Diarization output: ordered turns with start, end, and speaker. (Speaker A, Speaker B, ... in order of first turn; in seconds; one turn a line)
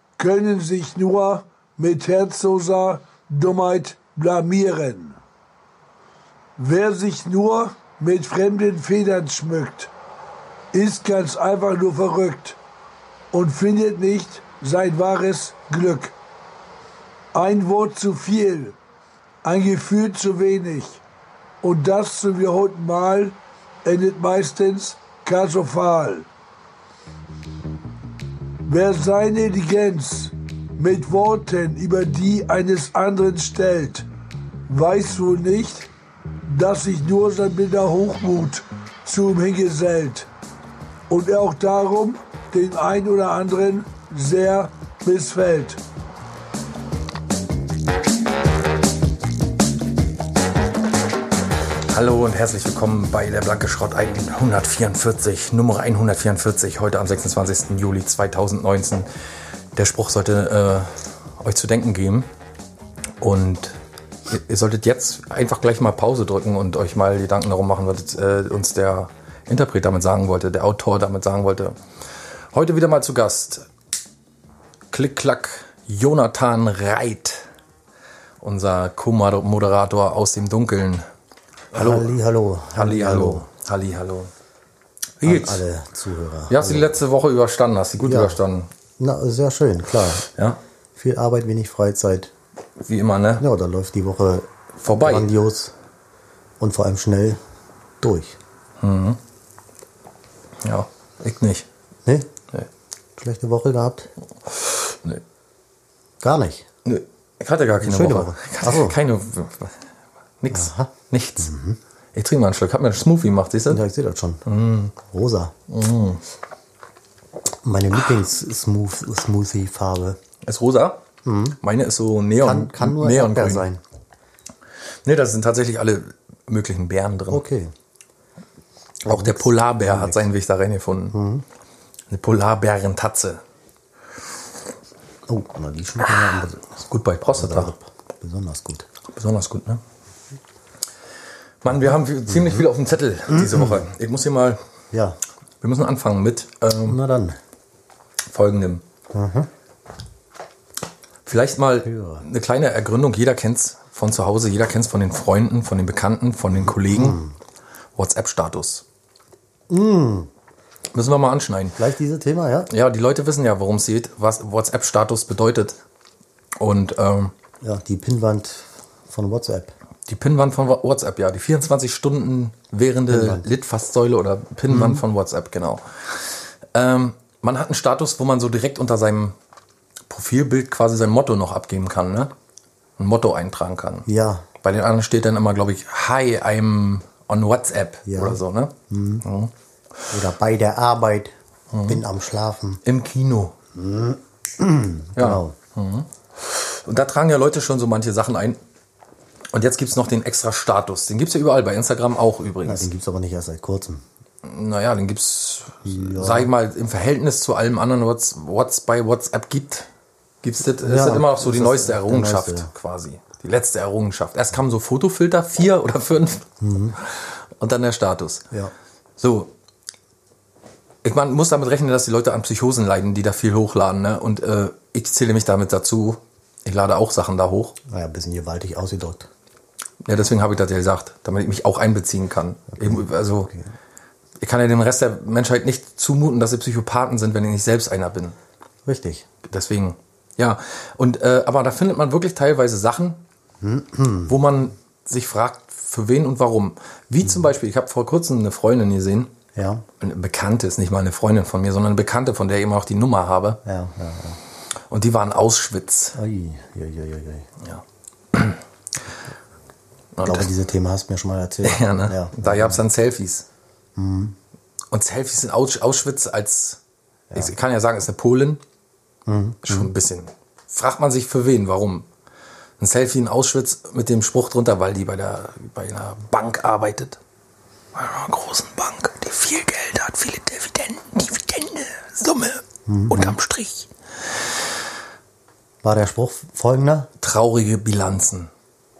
Speaker A: 0.2-5.2
Speaker A: 6.6-9.9
Speaker A: 10.7-12.6
Speaker A: 13.3-16.1
Speaker A: 17.3-18.8
Speaker A: 19.4-21.0
Speaker A: 21.6-26.3
Speaker A: 28.7-34.0
Speaker A: 34.7-35.9
Speaker A: 36.5-40.3
Speaker A: 41.1-45.8
Speaker B: 51.9-59.1
Speaker B: 59.8-62.3
Speaker B: 63.2-63.8
Speaker B: 64.3-71.8
Speaker B: 72.5-73.7
Speaker B: 74.9-77.5
Speaker B: 78.4-81.1
Speaker B: 81.7-82.1
Speaker C: 81.7-83.5
Speaker B: 82.7-84.3
Speaker B: 85.2-85.6
Speaker C: 85.2-87.0
Speaker B: 86.5-88.7
Speaker C: 88.0-88.4
Speaker C: 89.0-90.2
Speaker B: 90.3-90.6
Speaker C: 91.0-92.3
Speaker B: 92.8-93.5
Speaker C: 93.4-95.7
Speaker B: 94.8-95.3
Speaker C: 96.6-97.4
Speaker C: 98.0-98.4
Speaker B: 98.8-99.2
Speaker B: 100.6-101.7
Speaker C: 102.0-102.3
Speaker C: 103.2-104.1
Speaker B: 104.5-105.2
Speaker C: 106.2-106.7
Speaker B: 106.8-109.8
Speaker C: 107.8-109.0
Speaker B: 110.4-111.5
Speaker C: 110.5-111.8
Speaker B: 112.1-113.8
Speaker C: 113.7-114.4
Speaker B: 114.5-115.0
Speaker C: 115.0-115.5
Speaker B: 115.7-116.2
Speaker C: 117.6-120.2
Speaker B: 120.4-121.0
Speaker C: 121.2-121.6
Speaker B: 121.6-123.7
Speaker C: 122.4-123.8
Speaker B: 125.0-127.4
Speaker C: 127.3-127.7
Speaker B: 129.1-131.2
Speaker C: 129.1-130.3
Speaker C: 131.1-131.4
Speaker B: 132.1-133.4
Speaker C: 135.3-136.8
Speaker B: 136.1-137.8
Speaker C: 137.3-138.9
Speaker B: 139.1-139.8
Speaker B: 141.6-144.6
Speaker C: 142.3-142.6
Speaker C: 143.3-143.8
Speaker C: 144.9-145.2
Speaker B: 145.6-147.0
Speaker C: 146.9-147.4
Speaker B: 148.3-148.8
Speaker C: 149.1-149.5
Speaker B: 151.3-157.2
Speaker C: 151.8-152.2
Speaker C: 156.6-157.3
Speaker B: 158.0-158.8
Speaker C: 159.7-160.3
Speaker B: 160.9-161.8
Speaker C: 161.8-162.7
Speaker B: 162.7-165.8
Speaker B: 166.6-167.3
Speaker C: 167.6-169.7
Speaker B: 170.1-179.3
Speaker C: 173.1-173.5
Speaker C: 174.7-175.0
Speaker B: 180.1-182.3
Speaker B: 183.0-184.1
Speaker C: 184.1-184.5
Speaker B: 184.6-189.5
Speaker C: 188.1-189.2
Speaker C: 190.1-191.3
Speaker B: 191.7-192.0
Speaker C: 191.9-192.8
Speaker B: 192.8-193.6
Speaker C: 193.8-195.6
Speaker B: 195.2-198.6
Speaker B: 199.5-202.9
Speaker C: 202.7-204.0
Speaker B: 204.4-209.9
Speaker C: 205.8-206.5
Speaker B: 210.4-218.5
Speaker C: 210.8-212.7
Speaker C: 216.6-217.0
Speaker B: 219.2-219.5
Speaker B: 221.0-227.8
Speaker C: 227.9-229.3
Speaker B: 230.0-233.5
Speaker C: 232.8-233.7
Speaker B: 234.4-238.4
Speaker C: 238.8-239.3
Speaker B: 239.4-243.2
Speaker C: 243.6-244.4
Speaker B: 244.3-249.3
Speaker C: 249.6-249.8
Speaker B: 250.0-253.6
Speaker C: 253.7-254.4
Speaker B: 254.9-256.2
Speaker C: 256.2-257.5
Speaker B: 257.6-258.6
Speaker B: 260.1-260.5
Speaker C: 260.2-262.8
Speaker B: 261.6-263.5
Speaker C: 264.0-264.4
Speaker B: 264.9-266.8
Speaker B: 267.4-268.6
Speaker C: 269.3-269.9
Speaker B: 269.6-272.1
Speaker B: 272.8-277.2
Speaker B: 277.9-284.5
Speaker C: 282.9-283.4
Speaker C: 285.8-287.1
Speaker B: 287.2-288.5